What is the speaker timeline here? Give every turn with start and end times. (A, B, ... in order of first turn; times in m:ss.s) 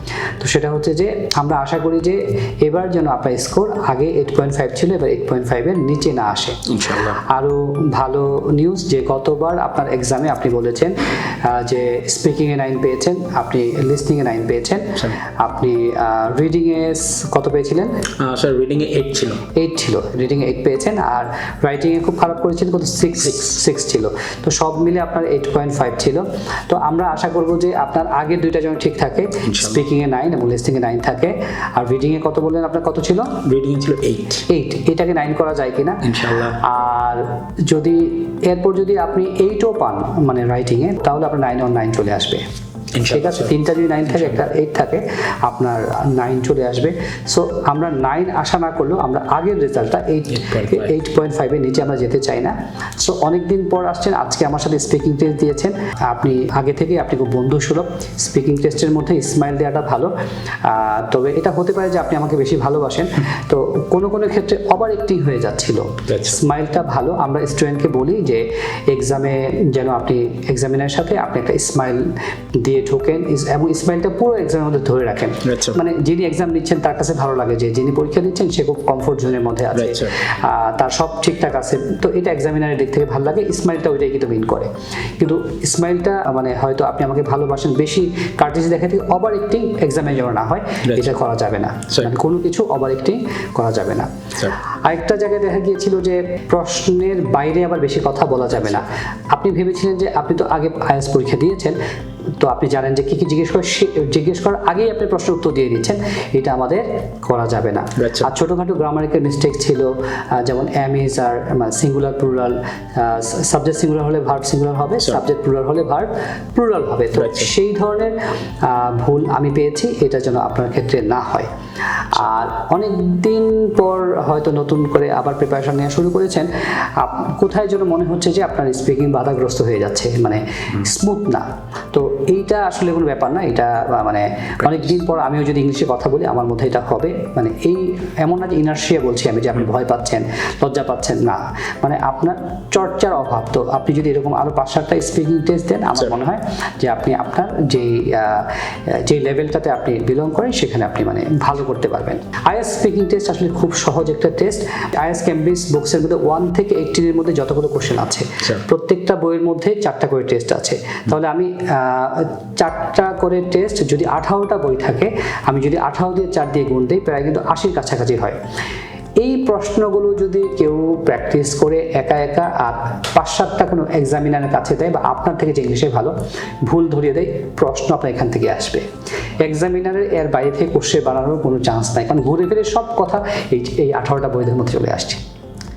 0:00.4-0:18.0 A
0:06.6-0:07.2 B
0:18.2-0:19.4 B
0:19.5-0:33.4 A
0:29.5-0:29.8 B
0:33.4-0:34.5 B
0:34.5-0:42.4 A
0:36.0-0:36.6 B
0:42.9-0:43.6 B
0:43.0-1:41.8 A
0:50.3-0:50.9 B
1:06.1-1:06.4 B
1:15.4-1:15.8 B
1:19.7-1:20.2 B
1:30.8-1:31.1 B
1:42.4-2:48.4 A
1:48.0-1:48.3 B
1:57.2-1:57.5 B
2:49.2-2:58.9 A
2:59.4-3:05.2 A